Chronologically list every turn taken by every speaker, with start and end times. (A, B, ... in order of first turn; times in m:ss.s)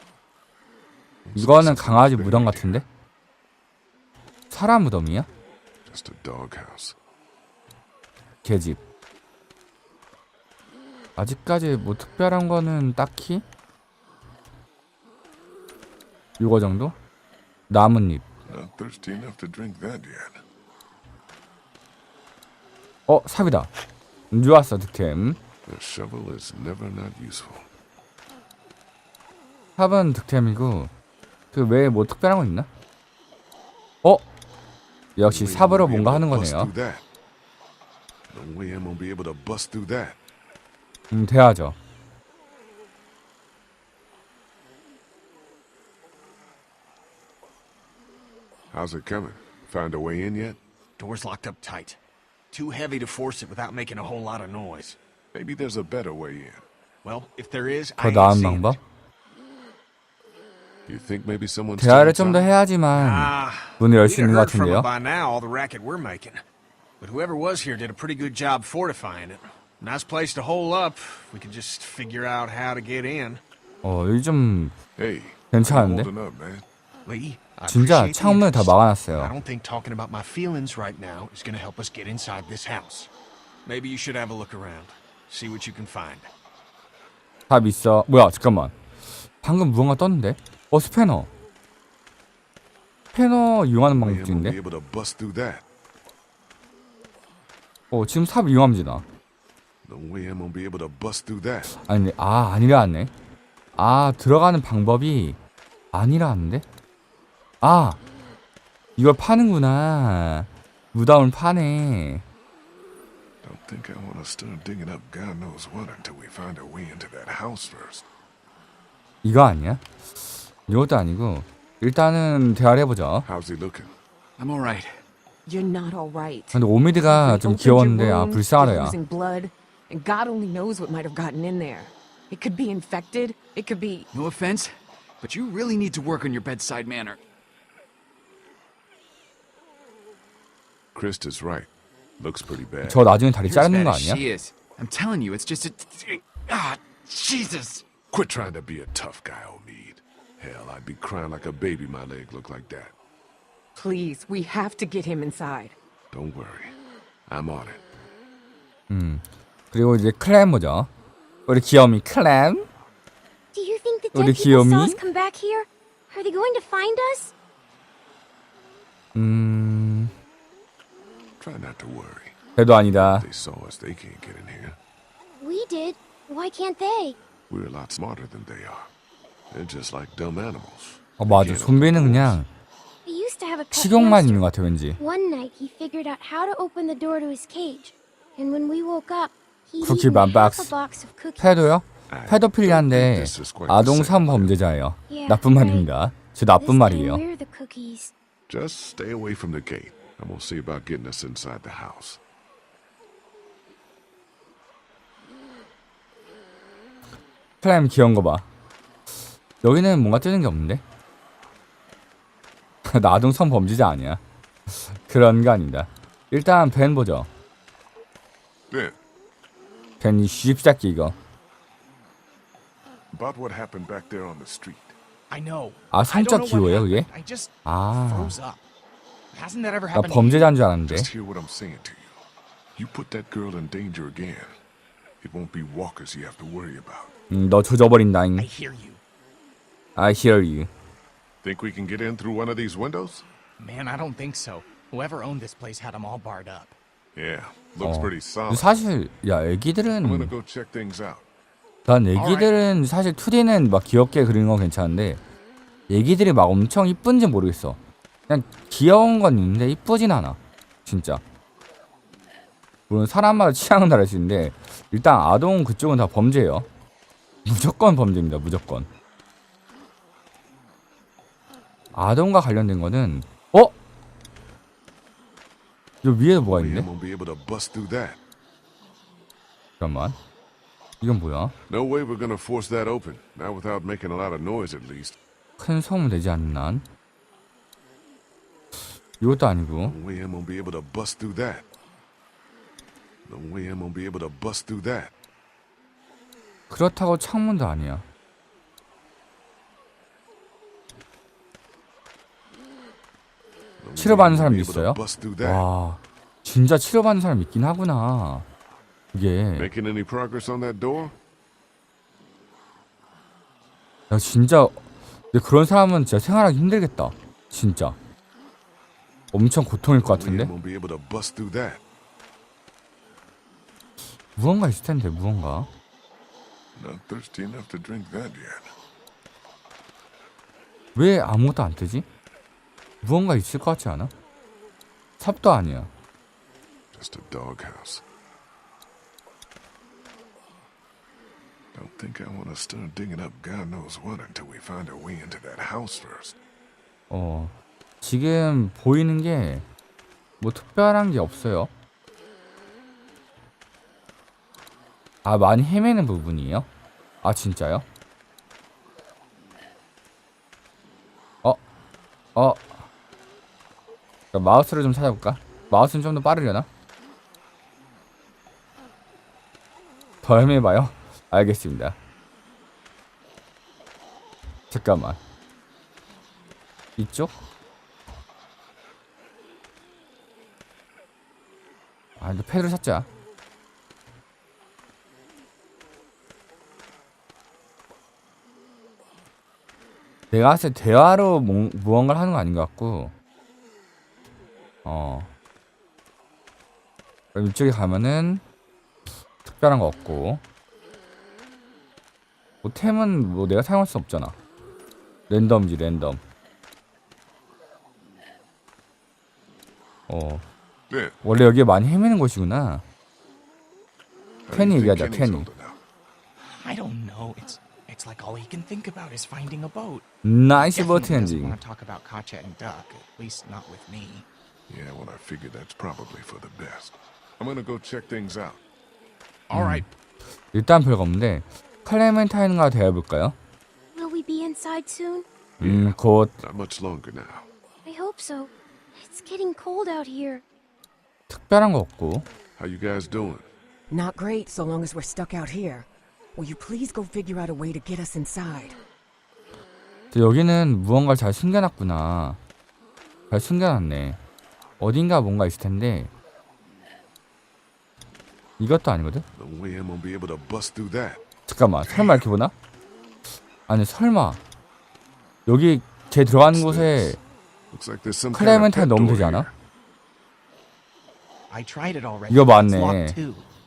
0:01.2-0:02.8 A
0:01.4-0:02.9 B
0:04.5-0:05.3 B
0:05.8-0:07.0 A
0:08.4-0:08.8 B
0:11.2-0:13.4 B
0:16.4-0:17.0 B
0:17.7-0:18.2 B
0:18.5-0:20.4 A
0:23.1-0:23.7 B
0:24.3-0:25.4 B
0:25.7-0:27.7 A
0:29.8-0:30.9 B
0:31.5-0:32.7 B
0:35.2-0:36.7 B
0:35.3-0:37.0 A
0:38.3-0:40.2 A
0:41.1-0:41.8 B
0:48.7-0:50.6 A
0:51.0-0:52.0 C
0:52.5-0:55.0 C
0:55.3-0:56.7 A
0:57.0-0:58.8 C
0:58.0-0:58.8 B
1:00.9-1:02.6 A
1:01.8-1:04.9 B
1:02.9-1:06.4 C
1:07.0-1:13.4 C
1:13.8-1:14.8 B
1:15.0-1:16.7 A
1:15.5-1:16.1 B
1:17.1-1:23.1 C
1:17.7-1:19.3 B
1:23.7-1:26.3 C
1:27.5-1:28.7 B
1:29.4-1:31.3 B
1:33.1-1:34.6 B
1:33.9-1:35.6 A
1:37.9-1:39.0 B
1:39.8-1:41.7 A
1:41.7-1:43.1 B
1:43.8-1:45.4 B
1:45.9-1:46.6 B
1:47.6-1:48.0 B
1:49.0-1:52.2 B
1:53.4-1:58.0 A
1:59.2-1:59.8 B
2:00.7-2:03.3 B
2:03.2-2:03.9 A
2:04.4-2:05.0 D
2:05.5-2:14.1 E
2:06.5-2:09.0 B
2:14.1-2:17.2 D
2:20.9-2:23.1 A
2:22.8-2:24.2 B
2:23.4-2:27.8 D
2:28.1-2:33.0 A
2:33.8-2:35.8 E
2:36.1-2:36.8 A
2:37.3-2:37.8 A
2:38.9-2:40.9 B
2:41.5-2:42.7 B
2:43.5-2:47.3 F
2:44.1-2:45.0 B
2:49.2-2:50.1 B
2:51.4-2:52.4 A
2:52.6-2:53.3 B
2:52.9-2:54.8 A
2:55.4-2:57.2 F
2:57.5-2:58.9 A
2:59.5-3:02.4 A
3:01.2-3:02.5 B
3:03.1-3:04.4 F
3:03.7-3:05.0 B
3:05.0-3:11.5 F
3:09.8-3:10.7 B
3:11.4-3:17.2 B
3:12.1-3:14.6 A
3:15.1-3:15.9 F
3:16.6-3:18.1 F
3:18.5-3:22.2 A
3:27.6-3:28.5 B
3:29.6-3:30.8 B
3:32.8-3:34.2 B
3:34.7-3:37.3 B
3:38.7-3:39.0 A
3:40.0-3:41.2 B
3:43.1-3:45.0 A
3:45.3-3:48.6 G
3:45.9-3:47.1 B
3:47.6-3:48.4 B
3:49.3-3:50.5 G
3:49.9-3:51.1 B
3:50.9-3:52.2 A
3:52.8-3:54.6 A
3:55.2-3:57.1 A
3:57.3-3:58.5 B
3:58.4-3:59.0 G
4:00.0-4:00.7 B
4:01.4-4:03.3 A
4:03.6-4:06.8 G
4:07.2-4:08.7 A
4:07.8-4:10.3 B
4:10.0-4:11.3 A
4:11.9-4:15.2 B
4:12.1-4:12.5 G
4:15.9-4:21.2 B
4:22.9-4:26.7 B
4:27.5-4:28.9 B
4:31.9-4:33.7 B
4:36.0-4:36.9 B
4:36.4-4:38.2 A
4:39.8-4:40.2 B
4:41.0-4:41.6 B
4:41.7-4:45.2 A
4:45.6-4:46.8 B
4:49.2-4:50.0 B
4:49.8-4:51.7 A
4:53.2-4:55.1 A
4:56.7-4:58.0 B
5:03.8-5:05.6 A
5:04.0-5:08.5 B
5:09.1-5:09.7 B
5:09.6-5:11.2 A
5:14.1-5:14.8 B
5:15.3-5:18.0 B
5:19.3-5:20.5 B
5:20.0-5:21.8 A
5:24.4-5:25.7 B
5:26.8-5:28.7 A
5:31.0-5:32.0 B
5:33.0-5:34.1 B
5:35.2-5:35.9 B
5:36.9-5:38.0 A
5:41.7-5:46.4 A
5:47.1-5:49.6 B
5:50.4-5:51.7 B
5:55.2-5:56.7 B
5:57.2-5:57.8 B
6:02.4-6:02.7 B
6:04.3-6:06.7 B
6:10.2-6:12.0 B
6:14.7-6:15.2 B
6:17.0-6:17.3 B
6:22.2-6:23.1 B
6:30.3-6:33.1 B
6:34.8-6:35.3 B
6:37.3-6:38.4 B
6:39.5-6:40.4 B
6:42.6-6:44.4 B
6:45.3-6:46.2 B
6:50.1-6:50.5 B
6:50.9-6:51.2 A
6:51.2-6:52.8 B
6:54.5-6:55.8 A
6:54.5-6:55.5 B
6:56.4-7:04.3 G
7:00.2-7:01.6 B
7:04.7-7:08.6 A
7:09.5-7:09.8 G
7:09.5-7:09.8 B
7:10.5-7:13.4 B
7:14.0-7:15.3 F
7:15.6-7:17.5 A
7:15.6-7:16.4 B
7:17.8-7:20.4 F
7:21.3-7:22.3 B
7:22.6-7:23.5 A
7:23.9-7:28.8 E
7:30.1-7:32.4 B
7:33.3-7:34.2 B
7:34.8-7:36.1 B
7:38.6-7:39.2 B
7:39.4-7:41.2 A
7:41.5-7:42.5 B
7:41.8-7:42.3 A
7:43.7-7:44.4 B
7:45.5-7:47.2 B
7:46.5-7:47.2 A
7:47.7-7:49.5 A
7:48.3-7:49.5 B
7:51.5-7:53.5 G
7:52.3-7:53.2 B